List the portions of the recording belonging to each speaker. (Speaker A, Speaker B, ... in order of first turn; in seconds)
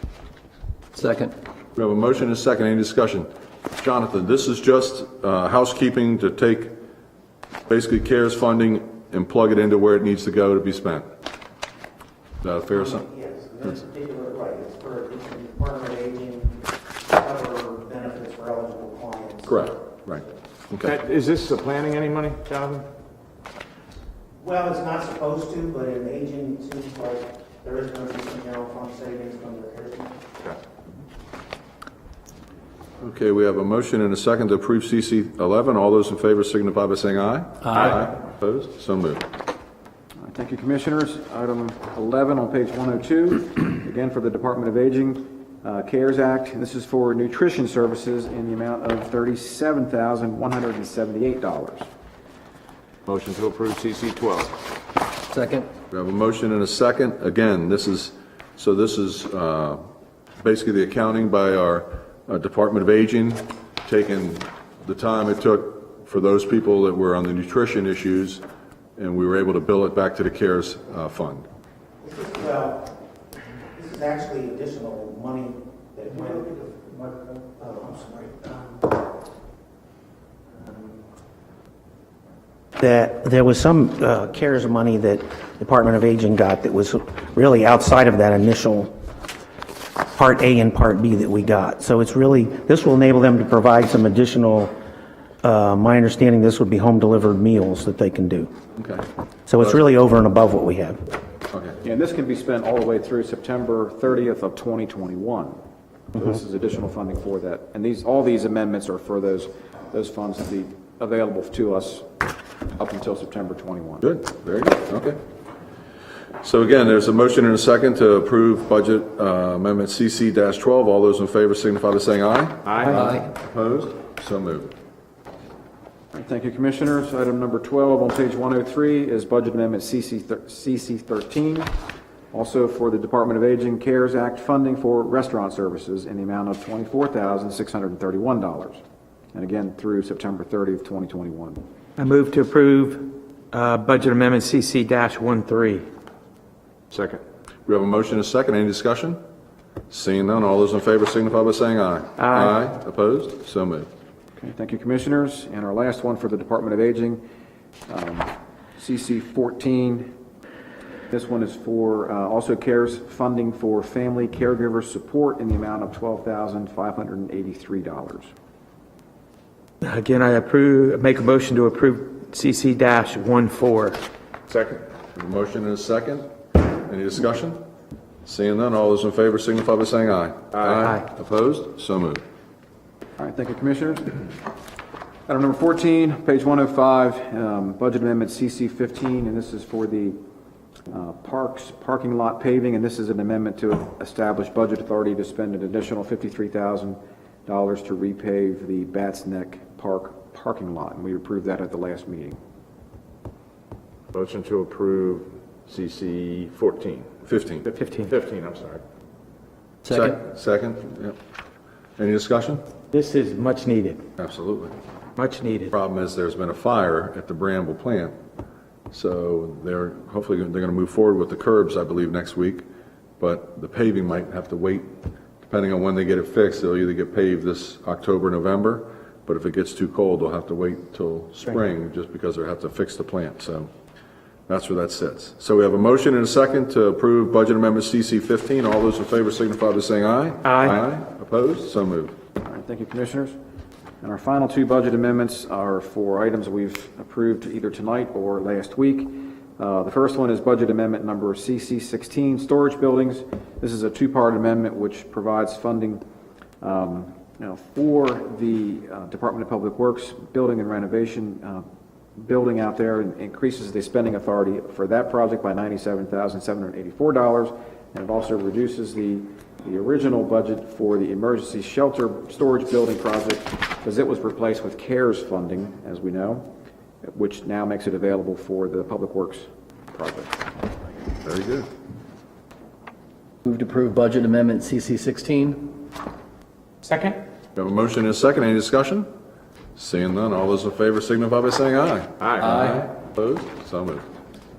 Speaker A: 0.9-1.3, 55.3-55.7, 283.4-285.8, 292.5-292.8
Speaker B: 1.7-6.7, 7.7-11.0, 12.4-13.1, 19.4-20.9, 33.0-39.2, 55.9-59.9, 60.4-68.4, 69.0-71.5, 98.8-99.0, 114.0-115.2, 116.4-124.7, 147.7-149.2, 149.9-153.9, 175.1-176.3, 176.8-177.6, 178.2-182.2, 207.2-207.7, 209.9-211.2, 212.0-212.6, 214.2-214.8, 215.7-218.1, 218.9-222.6, 223.2-224.9, 225.4-233.7, 234.5-242.1, 281.2-281.7, 287.6-289.1, 289.8-294.1
Speaker C: 12.9-19.5, 24.4-30.1, 72.0-72.9, 73.7-79.0, 80.5-81.0, 82.8-88.9, 90.1-94.7, 95.4-98.5, 99.5-101.0
Speaker D: 20.8-22.9, 53.1-54.6, 122.6-123.0, 146.9-147.2, 174.5-174.8, 180.5-180.9, 204.1-207.1, 207.9-208.8, 292.2-292.6
Speaker E: 40.2-51.9, 101.8-105.6, 106.1-112.1, 112.7-114.0, 126.1-131.7, 132.3-138.8, 139.3-141.6, 154.4-157.2, 157.9-160.1, 161.1-168.3, 183.2-184.3, 185.3-190.2, 190.9-202.4, 242.4-243.3, 244.0-256.0, 256.6-261.6, 262.2-276.5, 277.0-280.5
Speaker F: 142.0-145.8, 152.2-152.5, 169.8-174.0, 207.7-208.1, 212.9-214.0, 215.2-215.7, 240.4-240.8, 286.8-287.2